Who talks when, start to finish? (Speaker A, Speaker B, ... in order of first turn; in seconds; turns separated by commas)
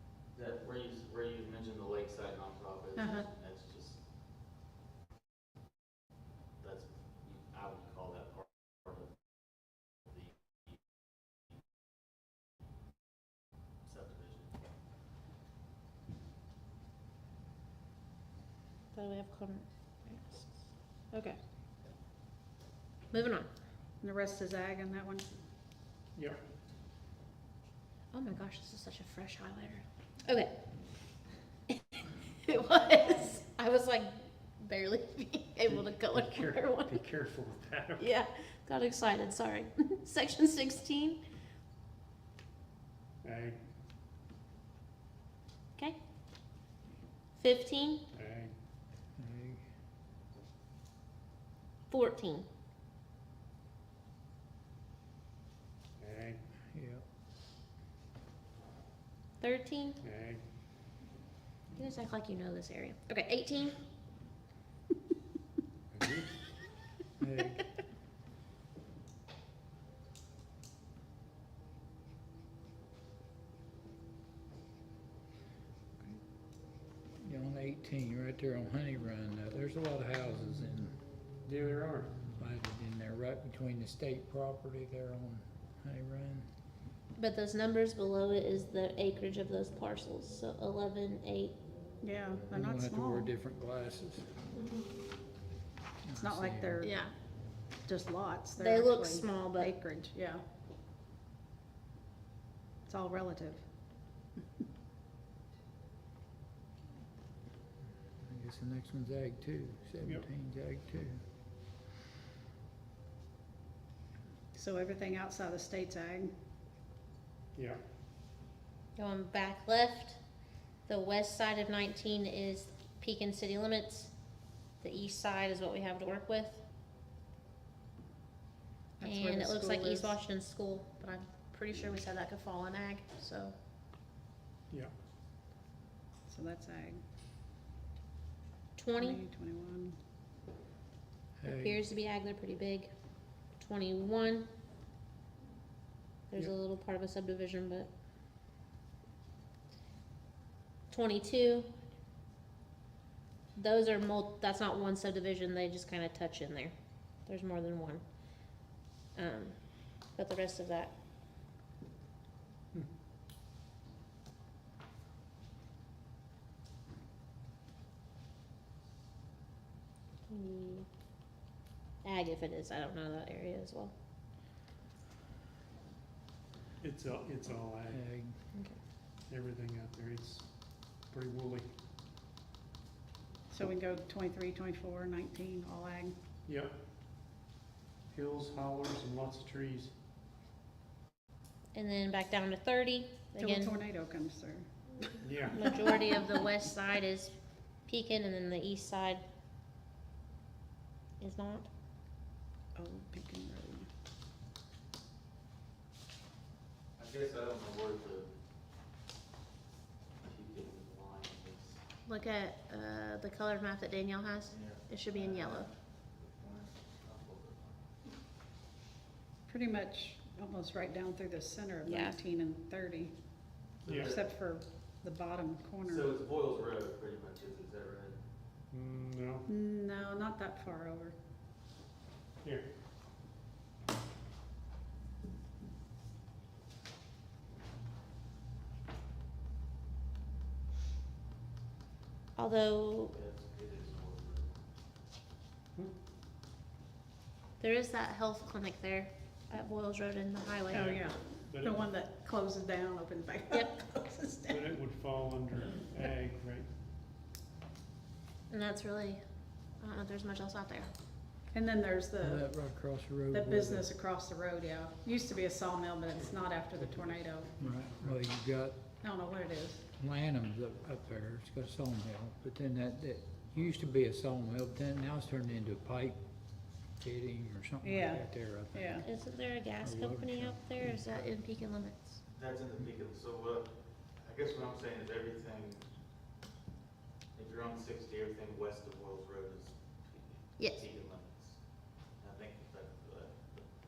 Speaker A: 0.3-4.0, Speaker B: 3.0-3.3, Speaker A: 6.6-9.1, Speaker A: 13.8-14.5, Speaker C: 18.9-20.5, Speaker C: 21.1-21.4, Speaker C: 23.1-23.5, Speaker B: 24.0-25.2, Speaker C: 28.1-30.5, Speaker C: 31.7-37.0, Speaker D: 35.8-38.1, Speaker C: 38.0-41.2, Speaker D: 43.2-43.6, Speaker C: 47.4-48.0, Speaker D: 48.1-48.5, Speaker E: 49.2-49.6, Speaker C: 51.9-52.5, Speaker D: 56.0-56.4, Speaker E: 56.7-57.0, Speaker C: 59.4-60.0, Speaker D: 60.0-60.4, Speaker C: 61.8-63.8, Speaker D: 65.9-66.3, Speaker E: 67.2-67.6, Speaker E: 77.2-81.0, Speaker D: 81.4-82.1, Speaker E: 82.3-86.5, Speaker C: 87.2-91.5, Speaker B: 92.0-93.3, Speaker E: 92.5-94.3, Speaker E: 96.0-96.8, Speaker B: 96.2-96.9, Speaker C: 96.8-97.1, Speaker B: 97.8-100.4, Speaker C: 98.6-99.7, Speaker B: 102.8-103.6, Speaker E: 108.2-111.2, Speaker D: 110.0-110.3, Speaker B: 114.5-116.3, Speaker C: 119.0-120.2, Speaker C: 120.9-124.1, Speaker C: 124.8-126.6, Speaker B: 129.0-130.2, Speaker C: 129.0-133.5, Speaker B: 136.3-137.0, Speaker C: 138.8-139.2, Speaker B: 138.9-140.0, Speaker E: 141.4-141.8, Speaker C: 141.4-142.9, Speaker C: 143.6-144.5, Speaker C: 146.3-147.9, Speaker C: 150.9-151.7, Speaker C: 153.5-156.7, Speaker C: 157.2-158.0, Speaker C: 159.2-160.9, Speaker C: 170.3-170.9, Speaker C: 172.0-173.9, Speaker D: 176.8-178.0, Speaker E: 177.9-178.4, Speaker D: 179.3-180.4, Speaker D: 181.1-181.7, Speaker B: 183.5-186.2, Speaker D: 186.4-186.7, Speaker D: 188.1-189.9, Speaker C: 191.7-193.8, Speaker B: 193.4-195.1, Speaker D: 195.2-195.7, Speaker C: 195.5-197.3, Speaker C: 197.9-199.2, Speaker C: 201.2-201.7, Speaker B: 202.7-203.9, Speaker A: 207.0-208.3, Speaker A: 210.2-211.8, Speaker C: 212.1-215.7, Speaker A: 214.5-217.8, Speaker B: 219.5-223.1, Speaker C: 221.8-222.2, Speaker A: 223.8-224.2, Speaker D: 223.8-224.1, Speaker B: 224.0-226.1, Speaker A: 225.8-228.2, Speaker D: 228.7-229.4, Speaker B: 229.4-231.2, Speaker C: 242.3-243.1, Speaker A: 243.1-244.5, Speaker C: 247.6-250.9, Speaker D: 250.7-251.9, Speaker B: 250.7-254.7, Speaker D: 254.4-256.7, Speaker C: 258.5-259.2, Speaker C: 259.8-260.9, Speaker B: 261.5-262.5, Speaker E: 262.2-263.9, Speaker B: 263.3-267.5, Speaker E: 267.6-268.8, Speaker D: 267.6-268.1, Speaker B: 269.0-269.8, Speaker E: 270.0-276.2, Speaker E: 277.0-279.1, Speaker B: 277.8-279.1, Speaker C: 279.0-282.2, Speaker E: 279.8-280.9, Speaker A: 282.3-283.7, Speaker A: 284.2-285.8, Speaker A: 287.4-291.6, Speaker C: 290.6-290.8, Speaker A: 292.2-293.6